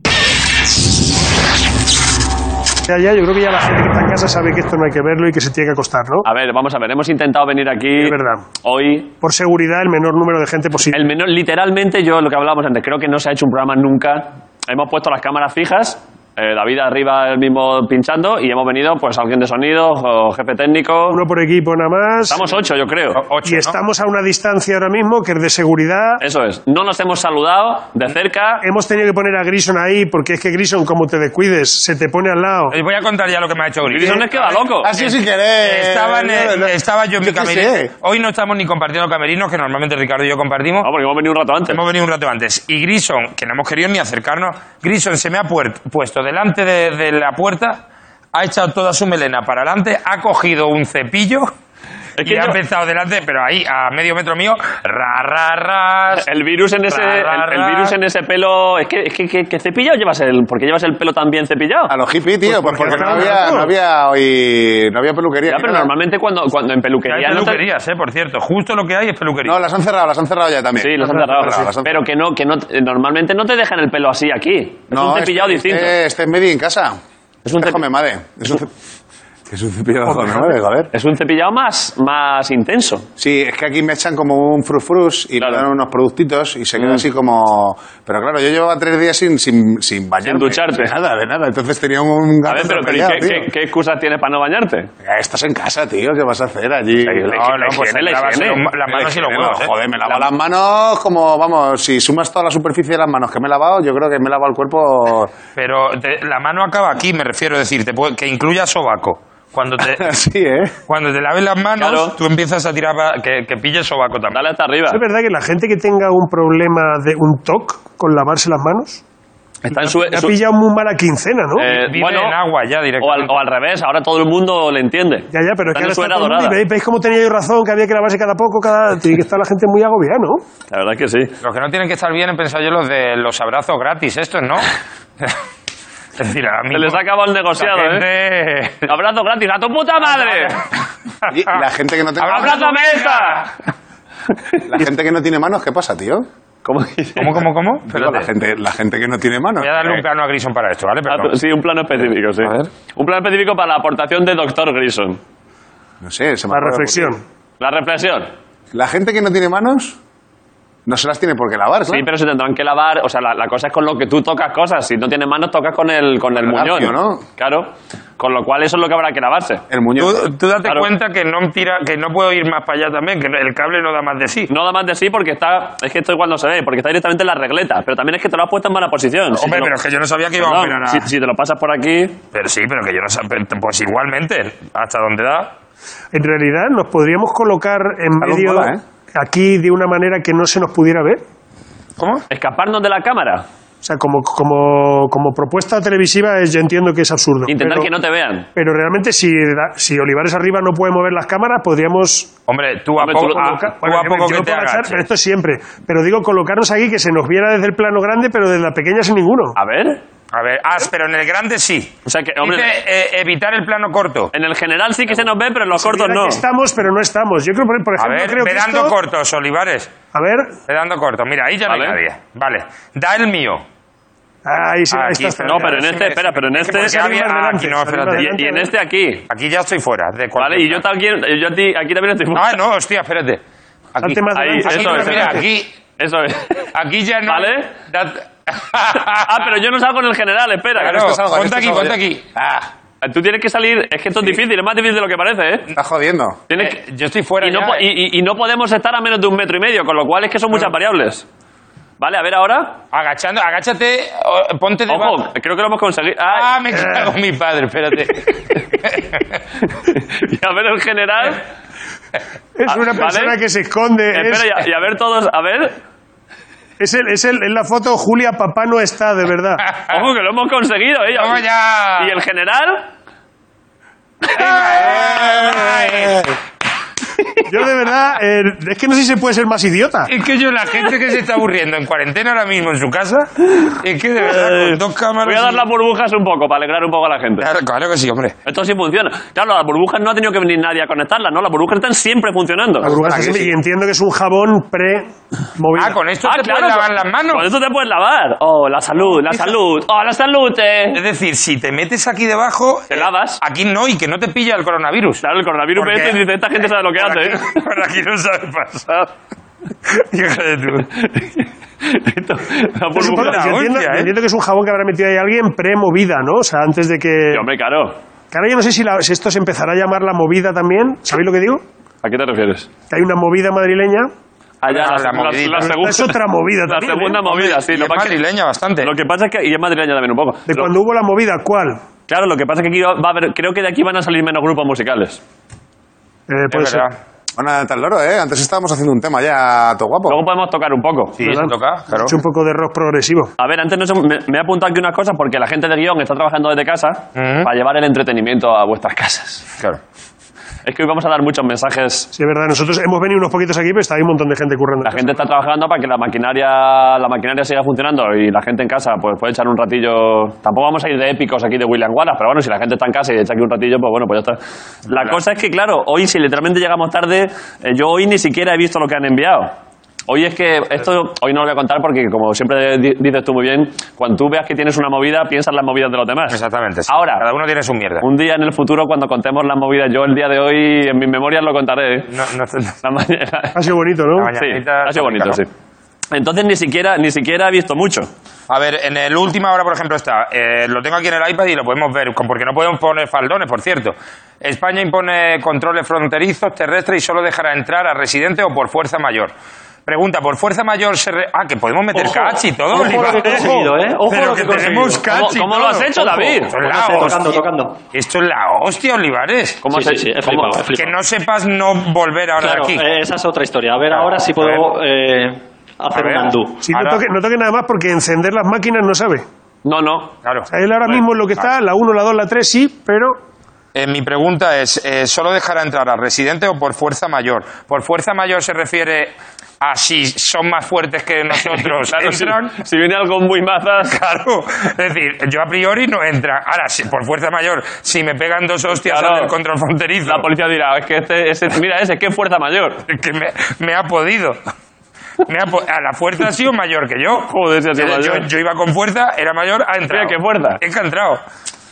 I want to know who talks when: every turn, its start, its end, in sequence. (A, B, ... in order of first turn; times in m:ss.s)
0:02.9-0:06.2 A
0:06.2-0:09.1 B
0:08.0-0:08.4 A
0:09.2-0:11.0 A
0:10.9-0:21.2 B
0:21.1-0:22.4 A
0:22.2-0:23.2 B
0:23.1-0:23.8 C
0:23.4-0:26.2 A
0:26.2-0:28.6 B
0:28.6-0:32.7 A
0:32.7-0:34.6 C
0:33.9-0:35.1 B
0:34.8-0:37.9 D
0:35.6-0:40.9 C
0:40.8-0:41.8 B
0:41.7-0:51.5 C
0:52.2-0:52.6 B
0:52.2-0:56.3 C
0:56.1-1:01.9 B
0:56.9-0:58.0 C
1:01.9-1:05.9 D
1:02.5-1:03.7 A
1:05.5-1:07.6 B
1:07.0-1:09.6 C
1:09.4-1:12.0 D
1:10.8-1:15.9 B
1:14.9-1:17.0 D
1:17.4-1:17.8 B
1:17.6-1:18.7 D
1:19.5-1:20.9 D
1:20.9-1:23.1 B
1:23.2-1:33.5 D
1:25.4-1:25.6 B
1:30.2-1:30.9 B
1:32.5-1:34.9 B
1:35.0-1:37.3 D
1:37.0-1:38.7 B
1:37.3-1:39.7 C
1:38.9-1:45.3 D
1:45.6-1:50.1 C
1:49.9-1:50.7 D
1:50.9-1:54.4 C
1:51.8-1:52.2 B
1:54.3-1:55.0 B
1:54.9-1:59.0 A
1:59.6-2:00.3 B
1:59.7-2:01.6 A
2:01.6-2:02.4 B
2:01.6-2:03.4 C
2:03.0-2:06.6 B
2:05.3-2:10.4 A
2:10.7-2:11.4 B
2:11.4-2:14.7 C
2:16.2-2:17.0 C
2:16.7-2:18.1 B
2:17.6-2:18.9 C
2:18.8-2:20.6 B
2:20.0-2:20.7 C
2:21.2-2:21.6 C
2:21.3-2:22.6 D
2:22.2-2:23.5 C
2:22.2-2:23.5 B
2:24.3-2:24.6 B
2:24.7-2:26.2 D
2:26.6-2:27.4 B
2:27.2-2:28.3 C
2:27.9-2:30.0 D
2:29.6-2:31.3 C
2:31.1-2:35.2 B
2:32.4-2:32.7 C
2:36.0-2:37.1 D
2:36.5-2:37.2 A
2:37.6-2:38.3 B
2:38.7-2:40.0 D
2:40.9-2:42.0 D
2:41.9-2:49.6 B
2:46.4-2:47.2 D
2:49.7-2:50.2 D
2:50.0-2:54.5 C
2:54.5-2:59.7 B
2:59.3-3:01.1 C
3:00.4-3:02.2 B
3:02.3-3:05.5 C
3:06.1-3:11.2 A
3:08.2-3:08.8 D
3:12.0-3:12.2 C
3:12.3-3:13.4 B
3:13.8-3:17.9 A
3:17.5-3:18.5 B
3:18.5-3:22.3 A
3:22.5-3:25.0 C
3:23.0-3:23.5 B
3:23.3-3:29.5 A
3:29.6-3:30.0 B
3:30.3-3:34.3 C
3:32.0-3:32.7 B
3:34.3-3:36.4 B
3:35.7-3:38.9 A
3:38.0-3:39.9 C
3:40.1-3:40.6 A
3:40.7-3:43.6 C
3:41.7-3:42.0 B
3:44.4-3:45.9 A
3:44.9-3:48.4 C
3:45.4-3:47.0 B
3:46.7-3:48.7 A
3:48.2-3:49.2 B
3:49.3-3:50.8 C
3:50.4-3:52.5 B
3:52.3-3:53.4 C
3:53.9-3:55.7 C
3:54.0-3:55.4 A
3:54.3-3:55.4 B
3:56.0-3:56.7 B
3:56.7-3:59.5 C
3:57.3-3:57.7 B
3:59.1-4:01.0 B
4:00.8-4:02.2 C
4:00.8-4:02.7 D
4:03.0-4:05.7 B
4:05.7-4:06.4 D
4:06.5-4:06.8 B
4:06.6-4:07.9 C
4:07.4-4:11.2 B
4:12.0-4:12.8 B
4:12.9-4:15.2 C
4:14.9-4:16.5 B
4:16.3-4:19.4 C
4:16.7-4:17.1 A
4:19.6-4:21.4 B
4:22.6-4:24.6 A
4:22.7-4:23.4 B
4:24.1-4:25.8 B
4:26.8-4:29.6 A
4:29.7-4:30.0 C
4:29.9-4:31.4 B
4:31.1-4:32.2 C
4:32.0-4:32.9 B
4:34.4-4:36.2 C
4:34.7-4:36.2 D
4:37.5-4:40.1 A
4:40.1-4:45.6 C
4:44.3-4:47.5 B
4:47.4-4:48.4 C
4:48.4-4:52.9 B
4:52.8-4:56.0 A
4:52.9-4:53.5 D
4:55.8-4:57.5 C
4:56.2-5:01.0 B
5:00.9-5:05.2 C
5:02.9-5:03.4 B
5:05.2-5:07.6 B
5:05.7-5:09.1 C
5:09.8-5:10.9 C
5:10.8-5:13.4 B
5:12.9-5:17.4 A
5:13.0-5:14.1 C
5:17.3-5:18.0 B
5:18.3-5:21.6 A
5:22.0-5:22.7 B
5:22.9-5:24.1 A
5:24.6-5:28.2 B
5:24.6-5:25.8 C
5:25.6-5:27.2 A
5:27.2-5:28.9 C
5:28.8-5:30.7 B
5:30.5-5:31.8 A
5:32.1-5:35.2 B
5:36.3-5:36.8 A
5:36.5-5:36.9 C
5:37.4-5:40.2 D
5:40.1-5:41.2 B
5:41.2-5:42.2 C
5:41.2-5:43.3 A
5:43.4-5:49.4 B
5:47.2-5:47.5 C
5:50.6-5:52.1 B
5:52.1-5:55.2 A
5:54.8-6:09.5 B
6:10.1-6:17.2 B
6:16.3-6:18.0 C
6:18.0-6:22.1 B
6:22.1-6:22.8 C
6:22.8-6:23.6 B
6:23.5-6:24.3 A
6:24.2-6:25.4 C
6:24.3-6:25.5 B
6:26.1-6:28.1 B
6:28.5-6:39.3 C
6:39.8-6:49.6 C
6:41.9-6:45.1 E
6:45.1-6:46.6 B
6:46.0-6:47.8 E
6:49.6-6:50.6 B
6:49.7-6:51.0 E
6:50.7-6:52.8 C
6:52.4-6:56.6 E
6:53.9-6:54.6 C
6:55.9-6:57.0 C
6:56.6-6:59.2 A
6:59.6-7:00.1 B
7:00.2-7:00.5 C
7:00.5-7:03.2 A
7:03.7-7:12.5 C
7:11.4-7:14.0 B
7:13.8-7:20.3 C
7:18.8-7:19.3 B
7:20.0-7:22.8 B
7:22.9-7:24.4 C
7:25.2-7:31.2 C
7:27.2-7:28.3 B
7:29.9-7:30.6 B